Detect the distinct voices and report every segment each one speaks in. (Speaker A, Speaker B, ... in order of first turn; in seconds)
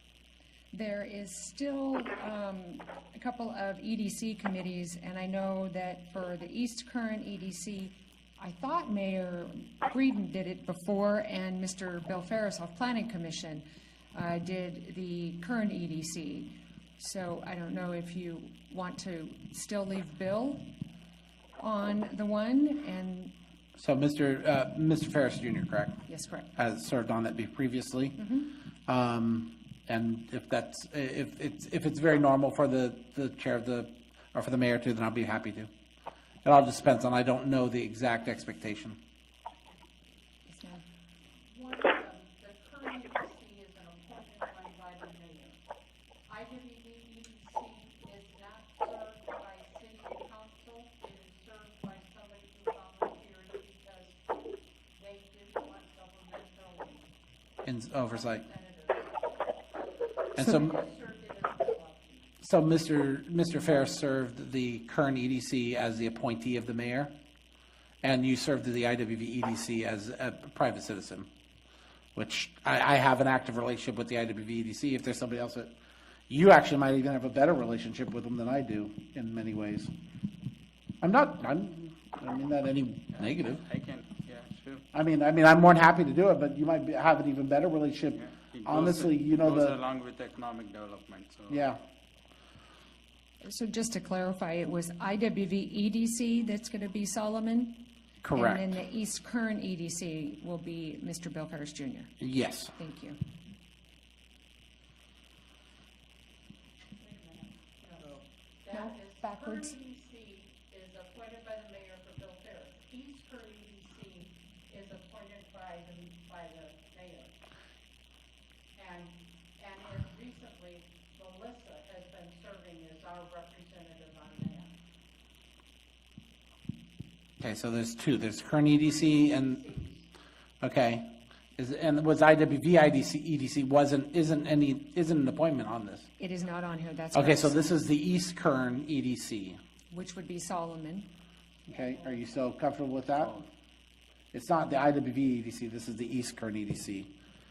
Speaker A: 0.7-20.7, 21.6-23.3, 26.1-26.5, 28.2-28.5, 40.5-40.8, 93.4-102.1, 102.7-103.2, 108.7-109.7, 136.2-137.7, 139.9-141.1
Speaker B: 23.8-26.0, 26.6-35.7, 36.4-39.0, 57.6-58.4, 60.4-60.8, 62.4-67.1, 68.0-71.3, 72.1-75.7, 76.3-79.9, 81.0-83.6, 84.9-89.8, 91.5-91.8, 98.2-98.7, 102.2-102.7, 127.4-129.6, 130.6-131.0, 131.6-136.1, 137.1-139.6, 141.7-143.4, 144.3-147.1
Speaker C: 41.5-45.6, 46.3-54.2, 54.9-57.1, 58.1-59.5, 60.5-62.2, 107.0-117.3, 118.7-124.7, 128.9-130.1
Speaker D: 83.6-84.8, 88.2-91.6, 109.3-109.7